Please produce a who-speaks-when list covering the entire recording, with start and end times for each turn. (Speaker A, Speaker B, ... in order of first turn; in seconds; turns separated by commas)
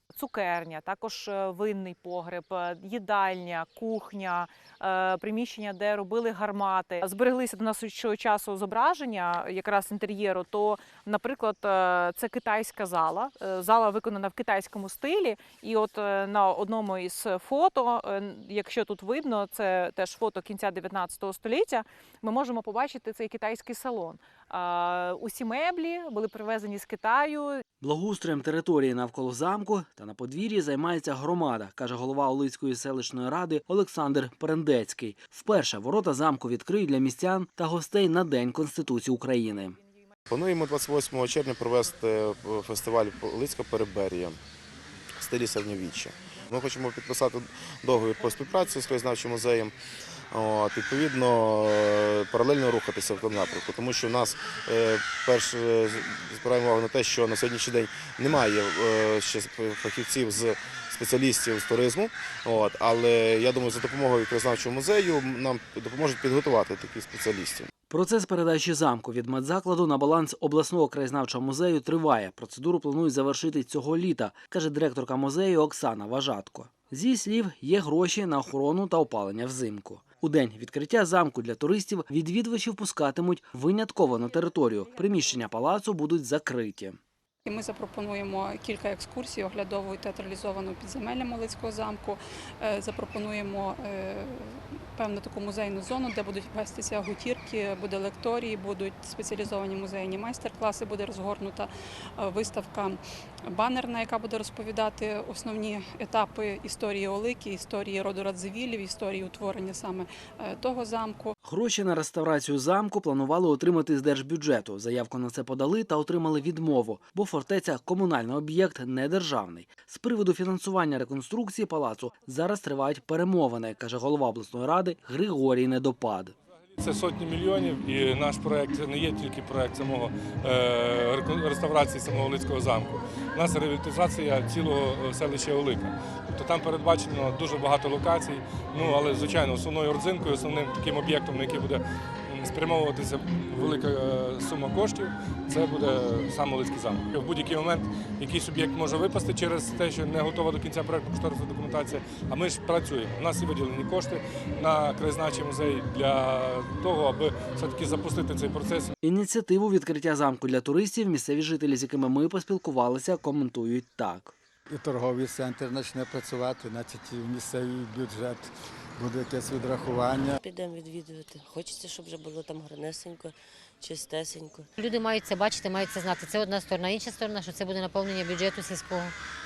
Speaker A: 0.1-27.6, Speaker B: 27.8-39.8, Speaker C: 40.3-44.4, Speaker C: 45.1-49.8, Speaker C: 50.3-67.7, Speaker B: 67.9-87.0, Speaker D: 87.5-111.3, Speaker B: 111.4-126.3, Speaker E: 126.8-158.9, Speaker B: 159.0-164.3, Speaker F: 164.7-170.4, Speaker G: 170.4-174.7, Speaker H: 174.8-179.1